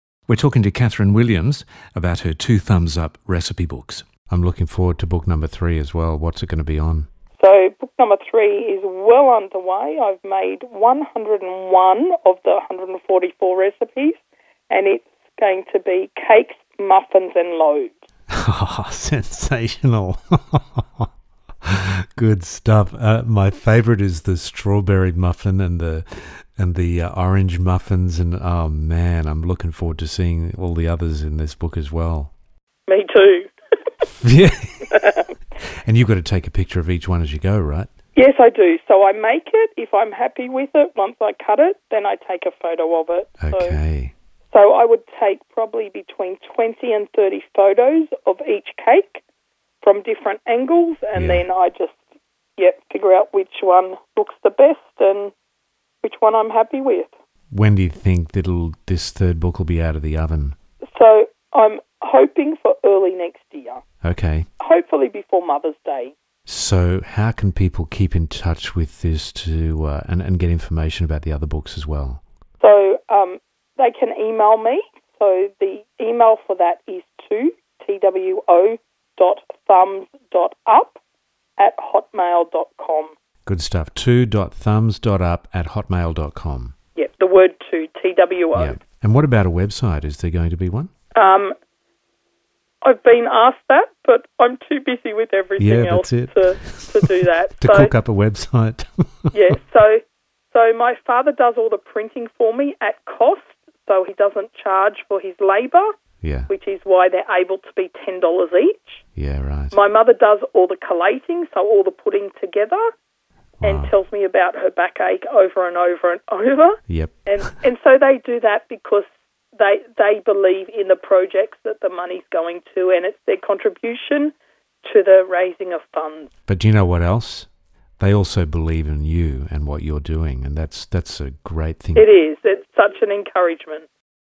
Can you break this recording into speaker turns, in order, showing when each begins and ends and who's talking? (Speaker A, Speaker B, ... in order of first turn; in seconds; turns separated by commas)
Speaker A: 0.3-7.1, Speaker B: 7.4-17.9, Speaker A: 18.3-21.1, Speaker A: 21.6-32.3, Speaker B: 32.9-33.5, Speaker A: 34.2-34.9, Speaker B: 34.9-35.3, Speaker A: 35.8-37.9, Speaker B: 38.1-43.8, Speaker A: 43.4-44.1, Speaker B: 44.5-49.2, Speaker B: 49.8-52.0, Speaker A: 51.1-51.4, Speaker B: 52.6-55.3, Speaker B: 56.0-57.1, Speaker A: 57.5-60.5, Speaker B: 60.9-63.8, Speaker A: 64.0-64.5, Speaker B: 64.6-66.1, Speaker A: 66.5-72.2, Speaker B: 72.6-81.0, Speaker B: 81.6-83.1, Speaker A: 83.5-86.7, Speaker B: 86.9-88.8, Speaker A: 88.5-90.9, Speaker B: 91.1-91.5, Speaker B: 92.8-97.9, Speaker A: 95.6-99.3, Speaker B: 99.3-105.8, Speaker A: 106.2-106.5, Speaker B: 106.5-109.0, Speaker A: 109.2-109.8, Speaker B: 109.7-112.8, Speaker A: 113.6-113.9, Speaker B: 113.6-124.3, Speaker A: 116.9-117.5, Speaker B: 124.8-126.3, Speaker A: 126.5-127.5, Speaker A: 128.0-132.1, Speaker B: 131.9-133.9